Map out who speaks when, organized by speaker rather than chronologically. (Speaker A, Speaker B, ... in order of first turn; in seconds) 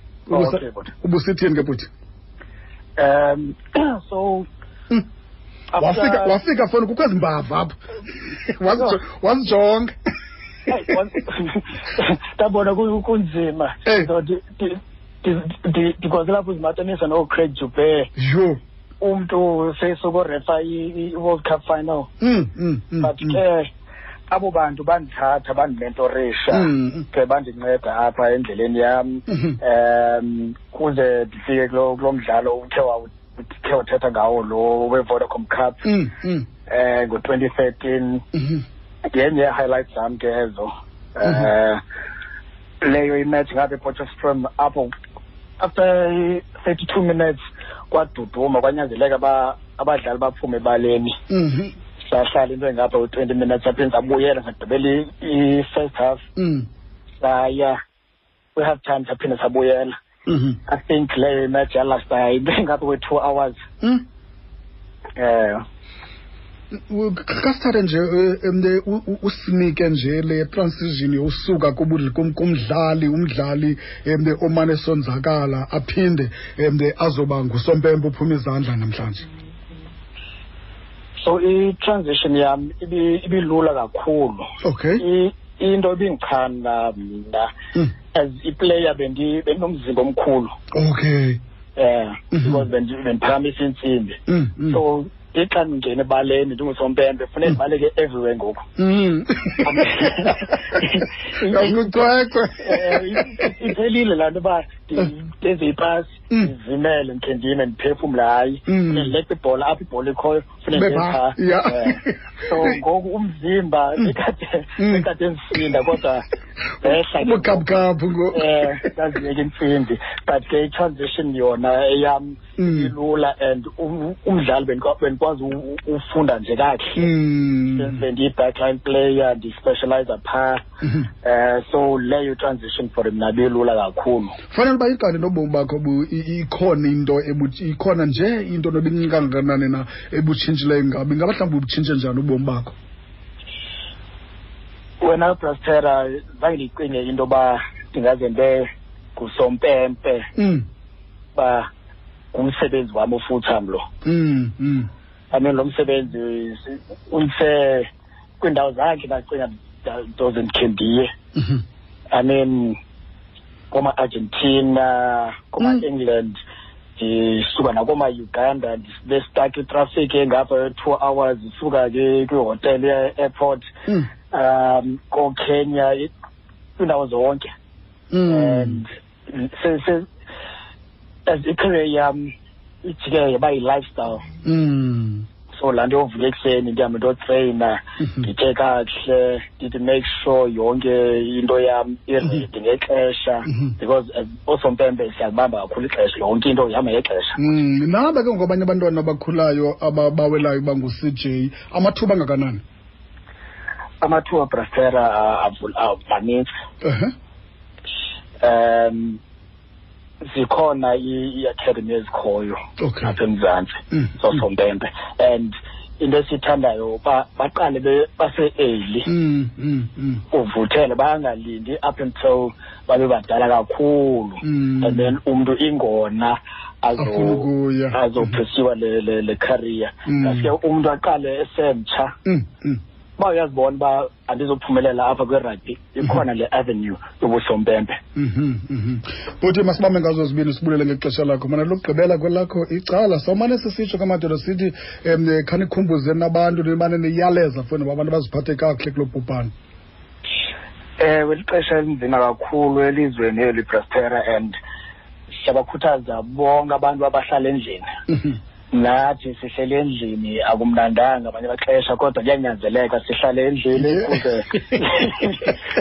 Speaker A: 0.3-1.9, 5.8-9.9, 18.1-18.6, 22.2-23.4, 26.5-27.1, 29.3-29.6, 35.8-36.5, 38.3-38.6, 41.2-41.5, 51.3-51.7, 56.4-56.6, 60.3-60.6, 66.7-79.3, 84.6-85.0, 90.7-91.4, 92.3-92.6, 94.3-94.8, 98.8-100.6, 101.5-103.4, 108.7-109.1, 110.7-112.7, 114.8-115.1, 117.2-118.7, 122.6-122.9, 127.0-128.0, 134.5-142.7, 150.3-150.6, 154.0-154.9, 178.1-178.8, 184.4-185.2, 188.0-188.3, 193.5-193.7, 197.4-202.6, 206.8-207.1, 212.8-213.1, 219.1-220.2, 224.4-225.1, 227.0-228.4, 230.1-230.5, 232.2-232.8, 238.1-249.5, 263.8-264.8
Speaker B: 0.3-0.9, 3.0-4.5, 5.7-6.4, 10.7-18.1, 19.0-22.1, 23.0-23.7, 24.3-35.8, 36.7-38.2, 39.1-41.8, 42.8-44.9, 45.6-47.4, 47.9-51.1, 52.1-56.2, 57.2-57.8, 58.5-59.9, 60.7-63.5, 65.2-65.6, 81.2-87.5, 88.1-90.5, 91.8-98.7, 99.6-102.0, 102.6-116.2, 116.8-127.1, 127.7-130.6, 131.2-134.4, 145.0-150.3, 151.3-151.7, 152.3-153.8, 155.3-157.9, 158.4-161.1, 162.1-162.8, 163.7-166.4, 167.0-173.7, 174.3-176.1, 176.8-177.5, 178.2-180.1, 181.3-184.2, 185.5-197.4, 204.0-206.5, 208.4-209.2, 210.3-219.1, 220.3-232.2, 233.2-238.0, 251.0-254.5, 255.4-257.9, 258.7-265.6